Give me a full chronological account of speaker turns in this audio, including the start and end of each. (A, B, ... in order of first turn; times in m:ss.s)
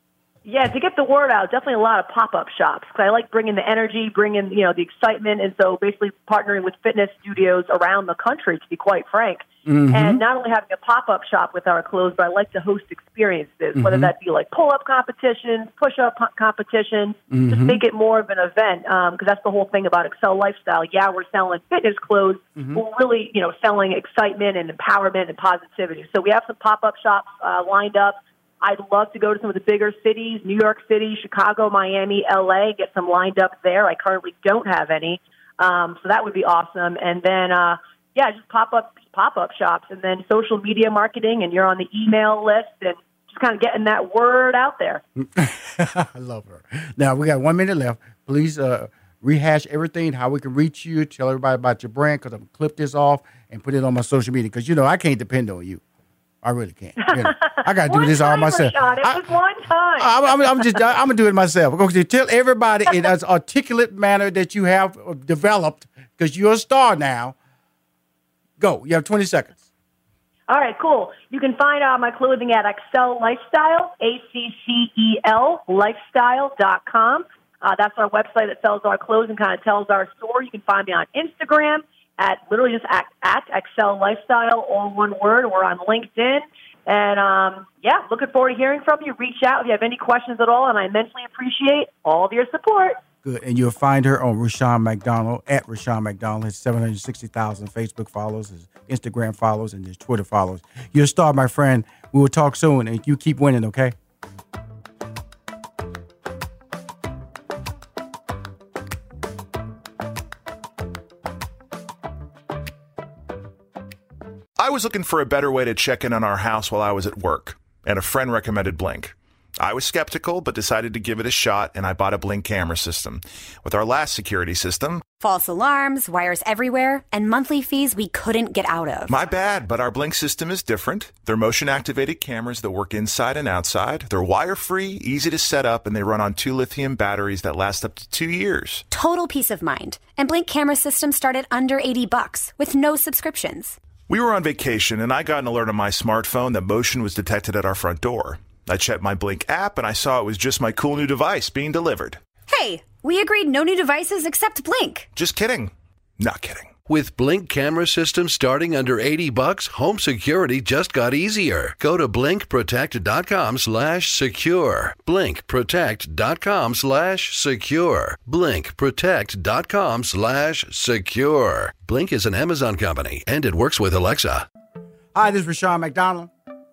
0:00.4-0:45.0 A
0:09.6-0:10.2 B
0:13.8-0:14.1 B
0:17.3-0:17.8 B
0:22.6-0:22.8 B
0:45.2-0:55.8 B
0:56.4-0:59.3 B
0:57.0-1:00.7 A
1:00.0-1:07.4 B
1:08.6-1:09.7 B
1:10.5-1:33.0 A
1:33.2-1:43.9 B
1:54.6-2:05.0 C
2:05.2-2:09.2 D
2:09.1-2:18.9 C
2:18.9-2:23.8 D
2:24.1-2:32.2 C
2:32.5-2:35.1 D
2:35.1-2:36.7 C
2:36.9-2:54.5 E
2:55.1-2:56.3 B